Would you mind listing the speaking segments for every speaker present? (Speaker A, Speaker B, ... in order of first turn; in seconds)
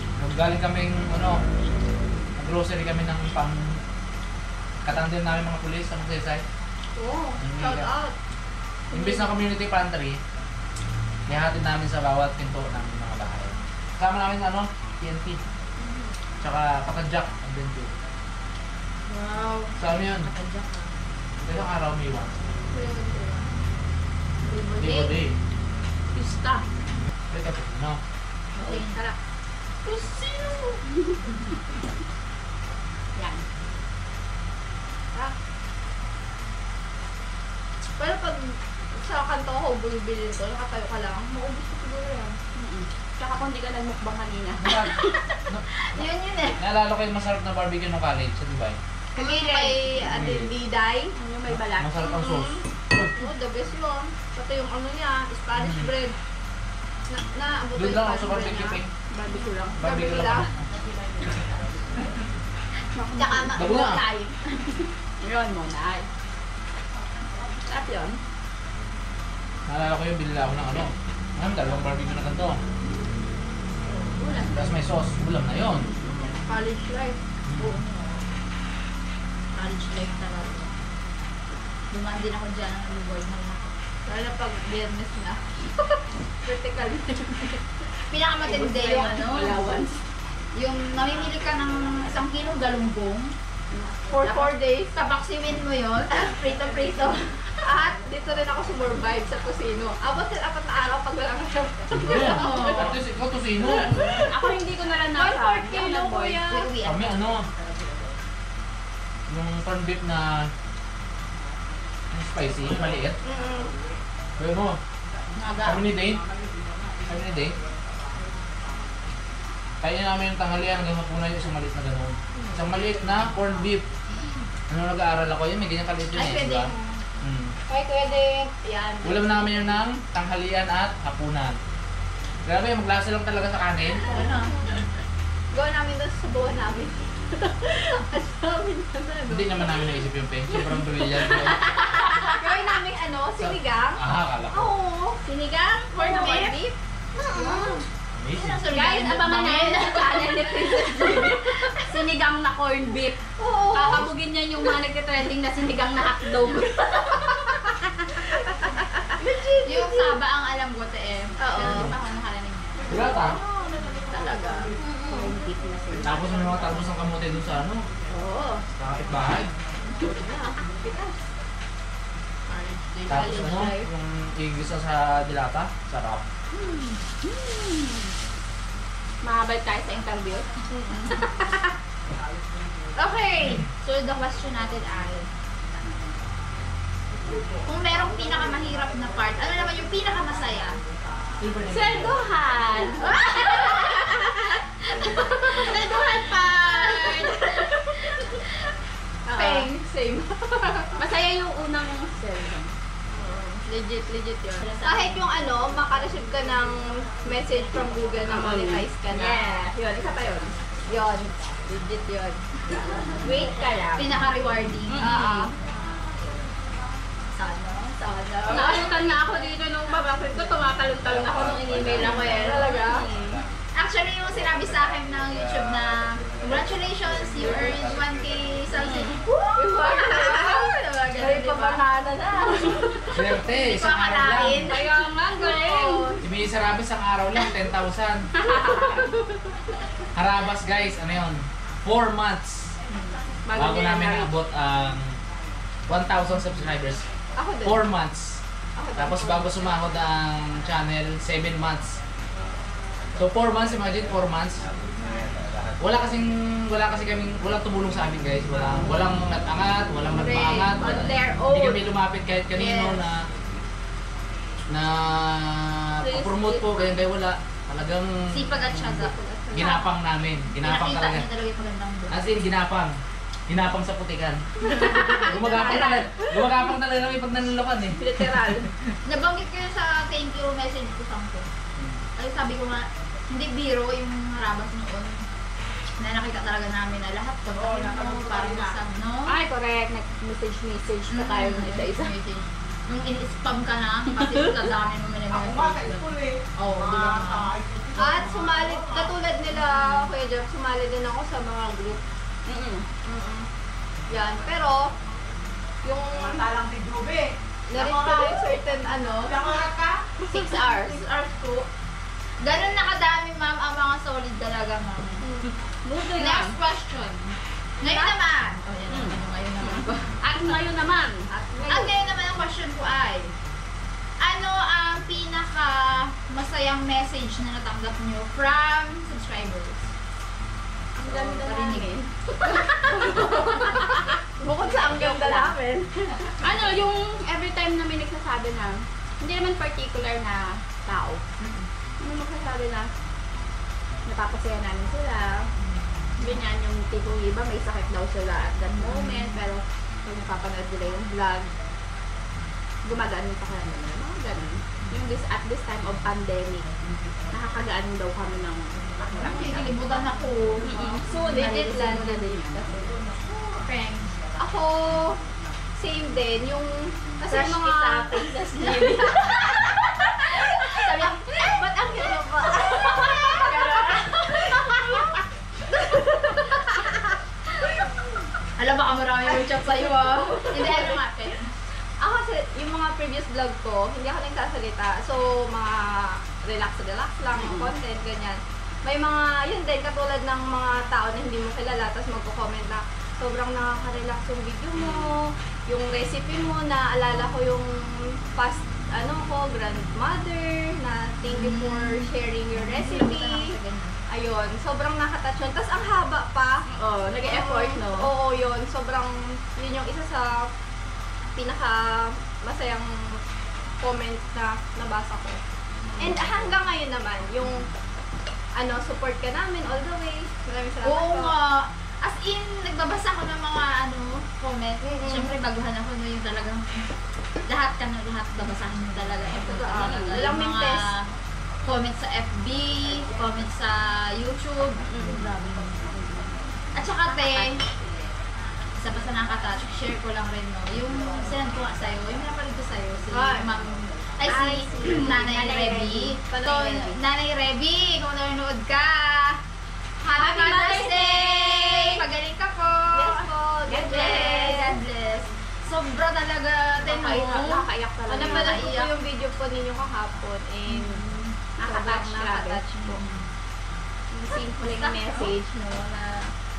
Speaker A: 0.2-1.4, 2.4-3.8, 4.8-6.4, 7.4-7.9, 8.9-10.2, 11.3-15.4, 16.4-17.9, 19.8-20.3, 21.4-22.3, 24.8-25.4, 27.3-28.0, 44.6-44.9, 46.6-48.8, 50.1-50.5, 51.5-53.1, 55.6-55.9, 57.8-58.9, 59.8-60.6, 63.5-64.0, 69.7-72.6, 74.5-75.9, 77.5-77.8, 101.9-104.0, 106.8-107.5, 109.3-110.5, 112.1-113.2, 114.4-114.8, 115.6-116.2, 117.1-117.5, 119.8-123.9, 124.7-126.7, 127.2-127.5, 129.0-131.6, 132.4-134.1, 139.3-141.6, 143.4-144.7, 148.1-148.7, 161.6-161.9, 162.9-163.4, 166.0-167.9, 168.8-169.5, 173.1-176.2, 191.4-192.1, 233.1-234.7, 236.2-238.3, 240.2-242.7, 243.6-245.2, 245.9-247.1, 247.6-248.4, 249.0-252.0, 253.2-254.6, 255.8-263.2, 264.7-271.3, 272.1-273.0, 273.5-278.0
Speaker B: 7.0-8.1, 22.7-23.5, 29.9-30.8, 38.0-42.4, 49.2-51.2, 52.0-56.2, 57.1-60.5, 76.3-77.2, 84.1-85.4, 86.4-87.6, 94.1-94.9, 97.6-103.0, 105.2-106.7, 113.2-113.7, 127.7-129.6, 135.5-139.7, 142.1-145.2, 146.0-146.7, 147.2-147.8, 153.4-154.1, 159.2-160.2, 161.4-161.8, 164.8-165.3, 172.5-173.9, 180.7-181.1, 183.0-183.6, 193.0-194.0, 195.5-197.6, 199.3-200.4, 203.2-209.5, 210.9-212.4, 215.0-215.5, 218.5-219.2, 222.0-223.1, 229.6-231.8, 234.6-236.2, 247.4-247.8, 248.8-249.5, 269.2-269.8, 275.0-276.1, 298.0-302.0, 303.1-303.5, 304.1-304.9, 305.8-306.4, 307.7-309.5, 310.3-311.1, 321.3-321.9, 333.2-333.8, 334.4-336.0, 361.1-362.1, 364.4-365.2, 365.8-369.6, 371.3-373.8, 379.4-380.9, 382.0-403.5, 404.1-406.7, 407.2-410.5, 411.4-413.2, 413.8-415.4, 416.0-417.7, 418.6-421.4, 424.8-425.4, 429.3-430.9, 443.1-443.5, 446.4-446.8, 453.0-454.6, 458.1-461.0, 461.6-463.0
Speaker C: 8.9-9.3, 26.1-26.7, 28.6-29.2, 33.2-33.4, 42.6-45.2, 51.1-52.0, 58.6-59.8, 63.0-63.5, 65.2-66.1, 67.7-68.2, 75.8-76.3, 88.4-90.0, 103.6-106.4, 140.9-142.3, 145.2-146.7, 147.3-147.7, 148.7-153.2, 153.7-158.3, 161.6-161.8, 164.1-166.7, 168.1-168.6, 170.0-170.6, 176.5-178.1, 179.2-180.5, 181.1-181.7, 191.7-193.9, 195.7-197.3, 199.3-199.7, 201.0-202.7, 208.3-210.6, 213.2-214.2, 214.9-215.5, 218.5-223.4, 228.7-230.6, 231.2-233.0, 234.7-236.2, 238.4-239.1, 243.5-244.3, 260.7-261.9, 266.0-266.9, 274.7-276.1, 278.0-278.7, 289.3-292.1, 302.5-302.9, 315.8-316.6, 318.9-321.3, 331.0-335.6, 336.4-341.2, 342.0-342.9, 344.1-345.5, 346.2-351.5, 352.8-356.7, 357.3-359.8, 360.6-362.8, 367.3-369.4, 370.4-370.7, 372.5-373.6, 380.4-380.9, 387.4-387.7, 394.8-395.2, 406.7-408.1, 429.6-430.2, 434.8-435.3, 437.1-437.5, 444.3-447.0, 450.1-452.0, 453.7-454.8, 456.8-458.7, 461.6-462.6, 464.1-466.3
Speaker D: 19.1-20.9, 24.4-25.1, 28.6-29.0, 45.9-46.6, 49.2-49.8, 63.1-64.7, 77.6-78.2, 79.5-80.7, 81.9-83.7, 88.1-89.6, 90.6-93.3, 94.2-97.3, 102.1-103.0, 106.5-107.5, 115.4-115.9, 126.1-127.0, 134.1-134.5, 146.1-146.6, 147.4-147.7, 148.4-150.9, 159.6-163.1, 183.1-185.3, 187.7-190.7, 199.4-199.7, 204.6-205.2, 214.0-215.5, 217.3-219.1, 221.9-222.8, 223.8-231.8, 233.4-234.9, 262.6-263.1, 268.3-269.8, 270.6-272.5, 275.0-276.0, 279.1-281.5, 282.2-285.2, 286.0-289.4, 291.1-297.5, 311.2-311.6, 312.4-315.3, 316.2-320.1, 321.7-323.3, 324.2-329.9, 331.1-331.9, 333.2-333.9, 341.4-341.7, 348.8-349.3, 359.2-362.2, 362.9-364.1, 370.7-371.4, 372.8-374.6, 378.6-381.5, 401.3-404.0, 420.8-426.9, 427.5-431.1, 431.6-435.7, 436.8-437.5, 438.8-449.4, 450.0-458.9, 460.7-461.4, 462.8-463.3, 464.6-465.3
Speaker E: 287.5-288.8, 295.3-299.1, 306.1-308.6, 309.2-311.0